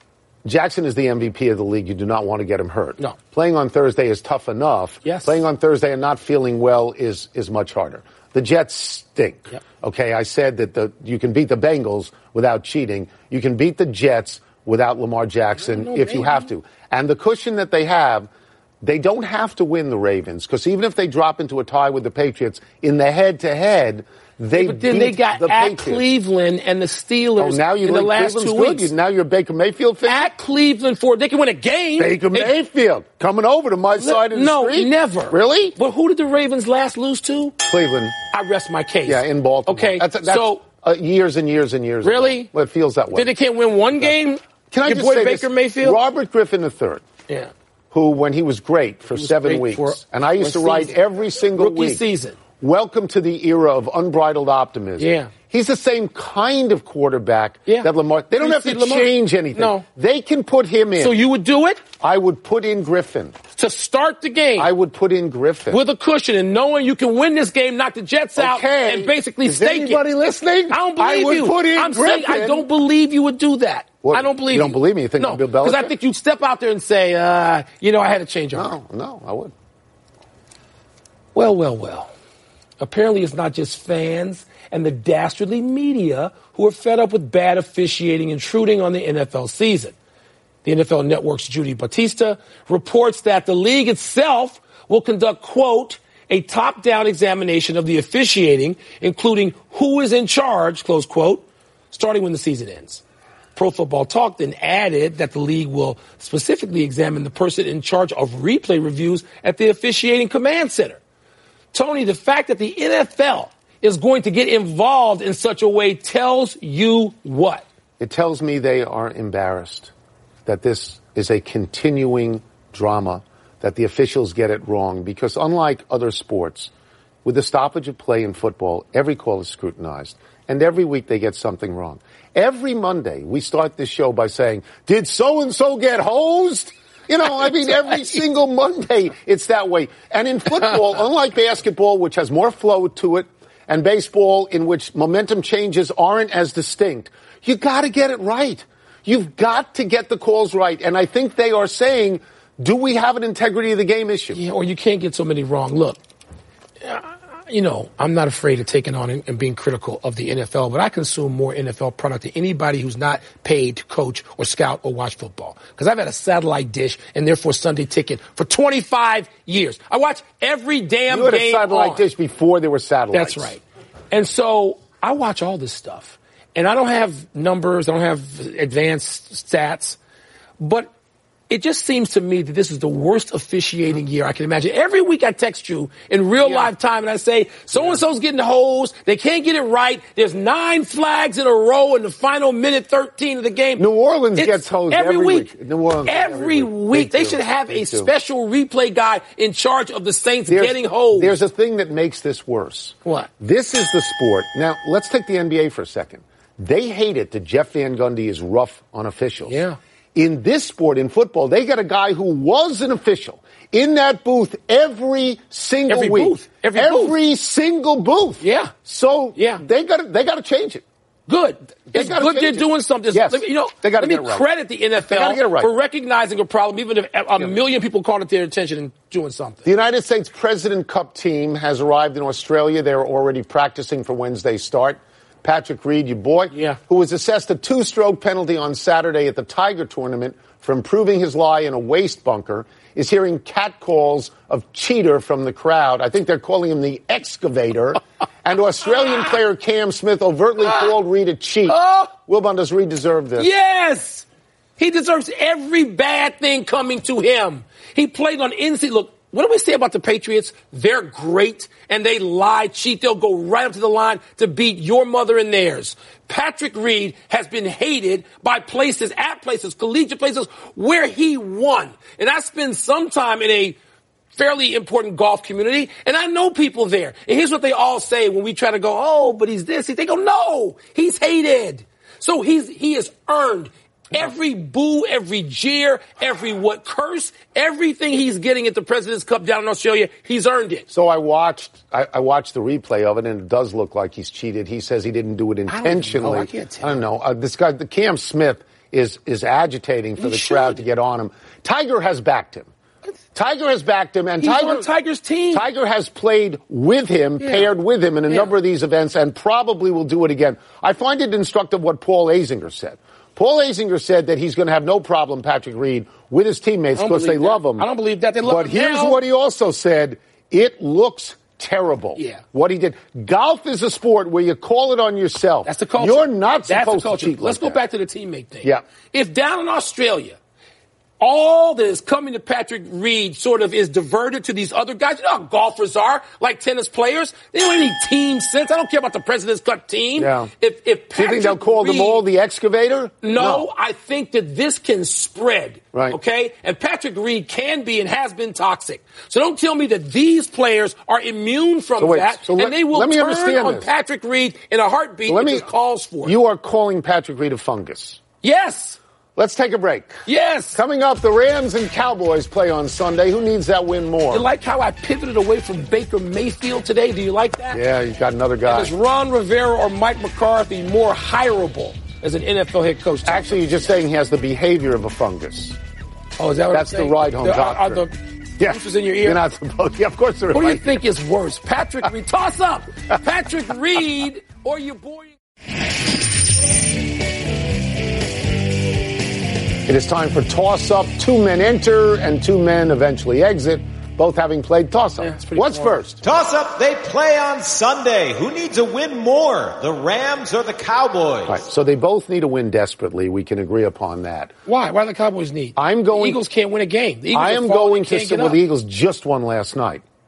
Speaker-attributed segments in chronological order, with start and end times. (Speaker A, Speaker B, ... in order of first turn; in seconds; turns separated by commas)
Speaker A: 0.5-18.3, Speaker B: 5.0-5.4, Speaker B: 15.6-16.5, Speaker A: 18.8-26.1, Speaker B: 24.6-28.9, Speaker A: 27.4-30.3, Speaker B: 30.0-32.6, Speaker A: 32.0-35.8, Speaker B: 34.0-37.5, Speaker A: 37.7-38.1, Speaker B: 38.3-40.6, Speaker A: 39.1-43.4, Speaker B: 42.0-42.5, Speaker B: 43.1-46.0, Speaker A: 44.7-47.0, Speaker A: 47.9-52.0, Speaker B: 49.1-52.4, Speaker A: 52.6-61.2, Speaker B: 55.0-55.3, Speaker B: 57.7-59.9, Speaker B: 61.0-61.8, Speaker A: 62.0-63.4, Speaker B: 63.6-64.7, Speaker A: 64.6-65.8, Speaker B: 65.7-70.1, Speaker A: 68.4-72.7, Speaker B: 70.7-78.7, Speaker A: 74.0-75.9, Speaker A: 78.5-79.5, Speaker B: 81.3-82.1, Speaker B: 82.8-90.0, Speaker B: 90.6-103.0, Speaker B: 103.5-111.0, Speaker B: 111.7-117.7, Speaker A: 118.0-119.9, Speaker A: 120.5-126.7, Speaker A: 127.2-154.4, Speaker B: 154.3-156.0, Speaker B: 156.8-172.1, Speaker A: 171.1-173.5, Speaker B: 173.1-180.0, Speaker B: 180.6-180.9, Speaker B: 181.5-195.5, Speaker A: 186.4-186.7, Speaker A: 187.7-188.0, Speaker A: 193.8-198.1, Speaker B: 196.1-201.4, Speaker A: 200.5-209.6, Speaker B: 209.5-209.8, Speaker A: 210.2-220.8, Speaker B: 215.9-217.2, Speaker B: 218.4-218.7, Speaker B: 219.4-219.6, Speaker B: 221.3-229.7, Speaker A: 221.9-224.5, Speaker A: 225.0-225.7, Speaker A: 229.7-253.5, Speaker B: 236.5-236.8, Speaker B: 251.7-252.1, Speaker B: 253.4-254.3, Speaker B: 254.8-273.8, Speaker B: 274.3-290.9, Speaker A: 290.9-302.7, Speaker B: 295.7-297.0, Speaker B: 300.2-300.8, Speaker A: 303.4-304.9, Speaker B: 304.4-305.7, Speaker A: 305.5-317.9, Speaker B: 307.4-307.7, Speaker B: 316.9-319.2, Speaker A: 318.4-327.8, Speaker B: 322.2-322.4, Speaker B: 325.6-330.4, Speaker B: 331.2-342.2, Speaker A: 340.2-340.5, Speaker A: 341.2-343.7, Speaker B: 343.2-356.4, Speaker A: 345.9-346.2, Speaker A: 352.0-353.9, Speaker A: 355.3-355.7, Speaker A: 356.2-358.2, Speaker B: 358.4-359.0, Speaker A: 359.4-360.1, Speaker B: 360.2-360.8, Speaker A: 360.7-364.5, Speaker B: 364.3-367.8, Speaker A: 367.7-368.9, Speaker B: 368.7-373.9, Speaker A: 373.2-375.8, Speaker B: 376.4-379.4, Speaker A: 376.7-378.1, Speaker A: 378.6-381.0, Speaker B: 380.5-385.4, Speaker A: 389.9-396.1, Speaker B: 395.2-396.2, Speaker C: 396.2-401.6, Speaker A: 401.5-404.5, Speaker B: 404.7-408.6, Speaker A: 405.8-406.4, Speaker A: 407.3-410.0